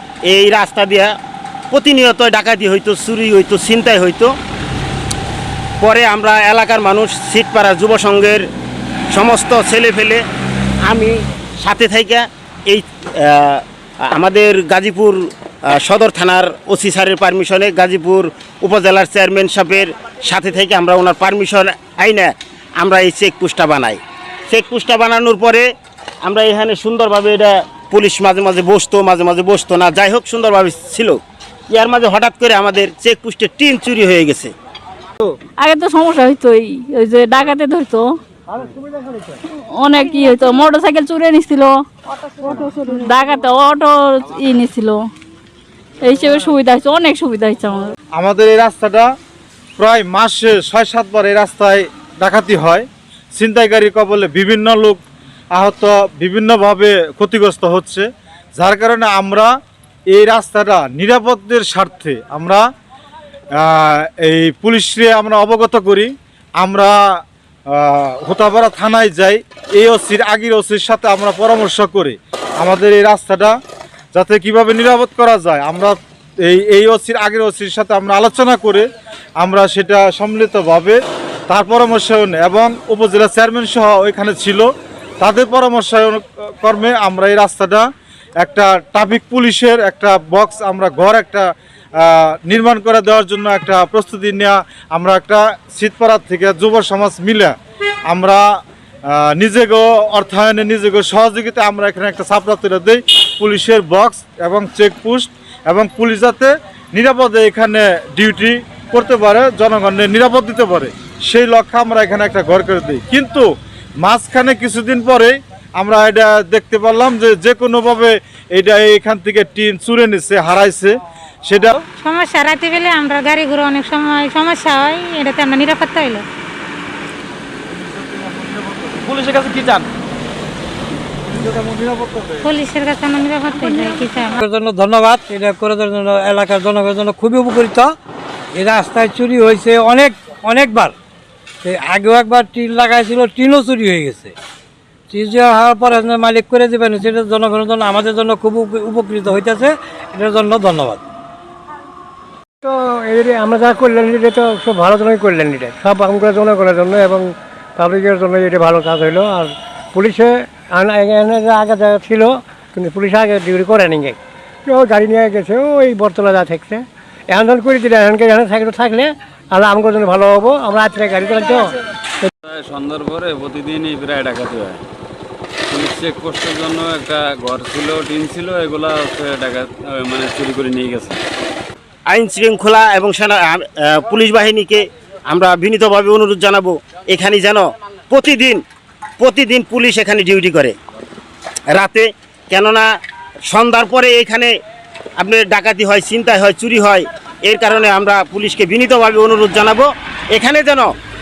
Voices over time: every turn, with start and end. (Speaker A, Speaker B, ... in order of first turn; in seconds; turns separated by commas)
Speaker A: 0.2-1.1, Speaker A: 1.7-4.3, Speaker A: 5.8-8.5, Speaker A: 9.1-10.2, Speaker A: 10.8-25.7, Speaker A: 26.2-34.5, Speaker B: 35.6-38.1, Speaker B: 39.5-41.8, Speaker B: 42.5-45.0, Speaker B: 46.0-47.9, Speaker C: 48.1-49.1, Speaker C: 49.8-55.0, Speaker C: 55.5-59.5, Speaker C: 60.1-62.6, Speaker C: 63.6-73.6, Speaker C: 74.1-78.8, Speaker C: 79.4-84.7, Speaker C: 85.2-87.9, Speaker C: 88.4-97.5, Speaker C: 98.1-98.5, Speaker C: 99.1-113.5, Speaker C: 114.0-121.0, Speaker C: 121.5-121.8, Speaker D: 122.0-126.2, Speaker E: 131.5-132.2, Speaker D: 132.4-134.4, Speaker E: 134.4-137.9, Speaker E: 138.6-140.9, Speaker E: 141.6-144.3, Speaker E: 145.1-151.0, Speaker F: 152.6-171.7, Speaker G: 172.4-174.8, Speaker G: 175.7-181.2, Speaker A: 182.1-188.6, Speaker A: 189.2-190.8, Speaker A: 191.7-192.9, Speaker A: 193.5-194.5, Speaker A: 195.2-200.9